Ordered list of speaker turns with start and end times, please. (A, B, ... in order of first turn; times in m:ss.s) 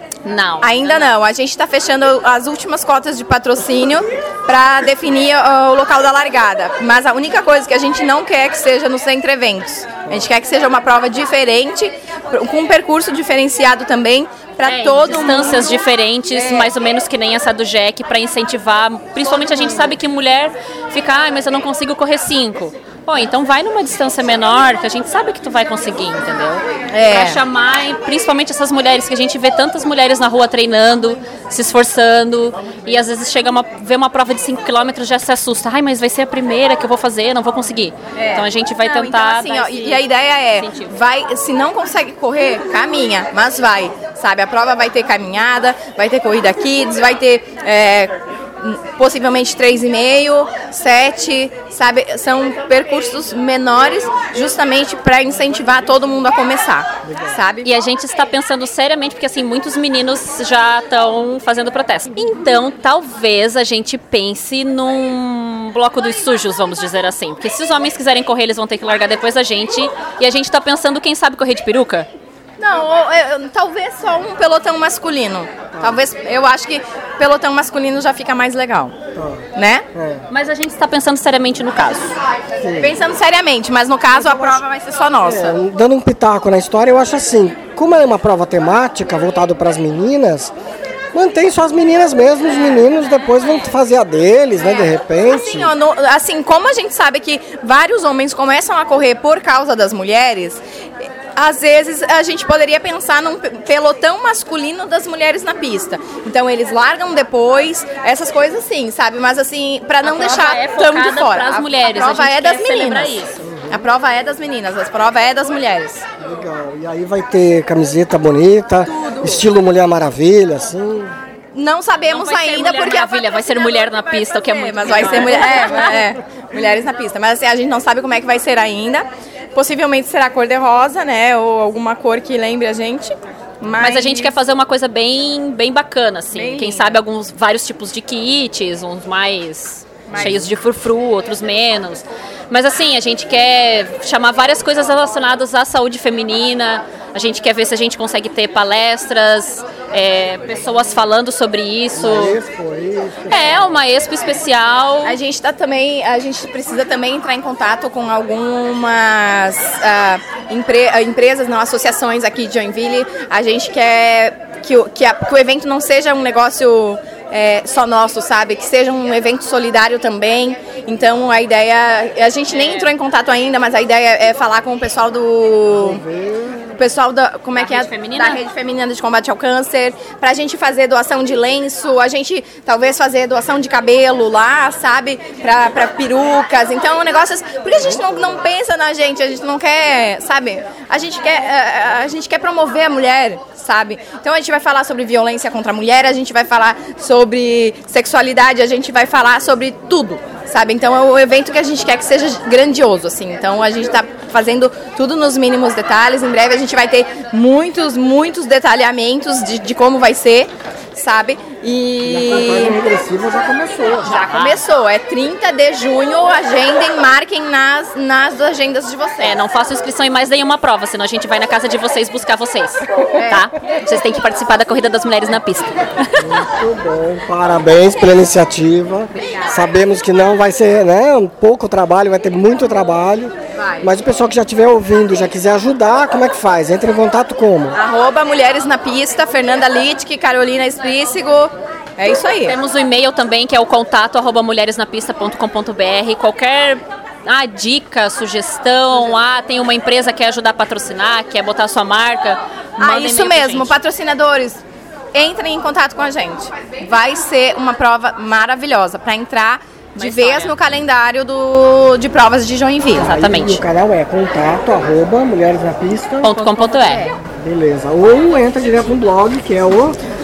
0:00.2-0:01.1 A
0:00.6-0:15.8 B
0:14.6-0:40.0 A
0:16.3-0:16.7 B
0:19.5-0:19.9 B
0:26.9-0:27.4 B
0:38.2-0:57.7 B
0:40.6-0:40.9 A
0:57.1-0:57.3 C
0:57.6-1:12.1 A
1:12.6-1:19.0 B
1:15.7-1:16.0 C
1:19.2-1:20.3 C
1:19.5-1:19.9 B
1:20.3-1:22.2 A
1:22.6-1:23.0 C
1:22.8-1:25.6 B
1:24.1-1:24.6 C
1:25.2-1:30.5 C
1:31.1-1:35.7 C
1:34.6-1:56.1 B
1:50.0-1:53.4 A
1:53.4-1:53.8 C
1:56.2-2:01.1 C
1:58.9-1:59.5 B
2:01.5-2:14.3 B
2:02.1-2:06.1 A
2:13.8-2:32.4 A
2:16.3-2:17.0 B
2:20.1-2:20.5 B
2:32.0-2:33.7 C
2:33.3-2:35.2 A
2:35.0-2:56.0 B
2:52.5-2:52.9 A
2:55.8-2:56.8 C
2:56.8-3:32.8 B
2:57.6-2:58.4 A
3:32.0-3:34.1 C
3:34.0-3:34.6 A
3:34.0-3:39.4 B
3:39.2-3:46.3 A
3:46.2-3:57.8 C
3:49.2-3:49.5 B
3:53.5-3:53.9 B
3:57.7-4:02.6 B
4:02.4-4:13.8 A
4:12.8-4:23.1 B
4:20.0-4:20.6 A
4:23.0-4:23.6 A
4:23.1-4:26.4 C
4:26.2-4:27.1 A
4:26.4-4:27.2 B
4:27.3-4:30.0 C